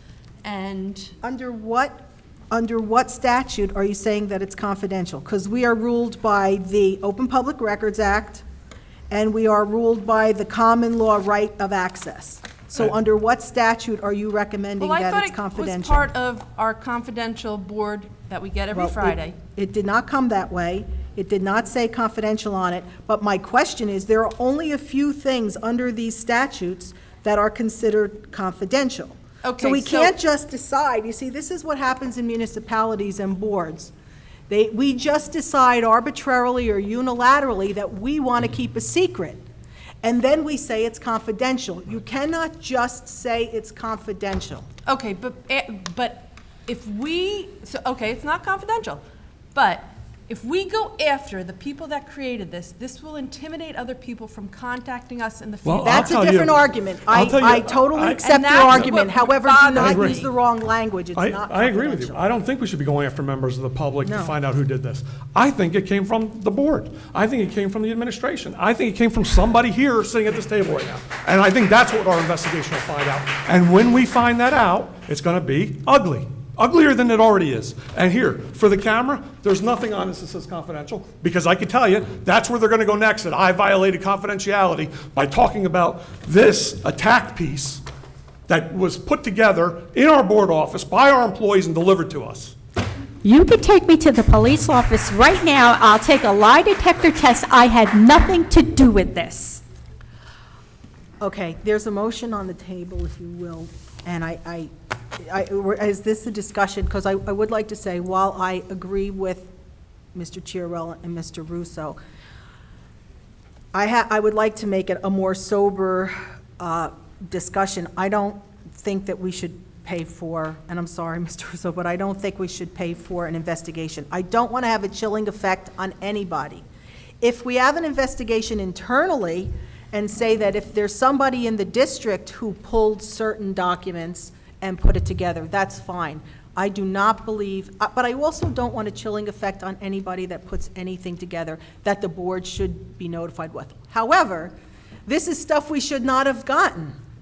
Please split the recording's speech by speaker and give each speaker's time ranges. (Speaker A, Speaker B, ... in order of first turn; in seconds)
Speaker A: 0.4-1.1, 14.8-19.4, 29.4-30.2, 44.9-49.0, 49.5-56.2, 58.2-60.3
Speaker B: 1.2-8.4, 9.1-16.1, 18.7-33.9, 34.5-39.4, 40.0-44.7, 55.8-62.2, 64.0-64.4, 101.2-109.5, 110.1-112.0, 113.7-126.7, 127.2-144.5, 145.1-146.9
Speaker C: 55.6-58.9, 59.8-60.3, 61.1-87.8, 88.5-92.5
Speaker D: 93.2-99.6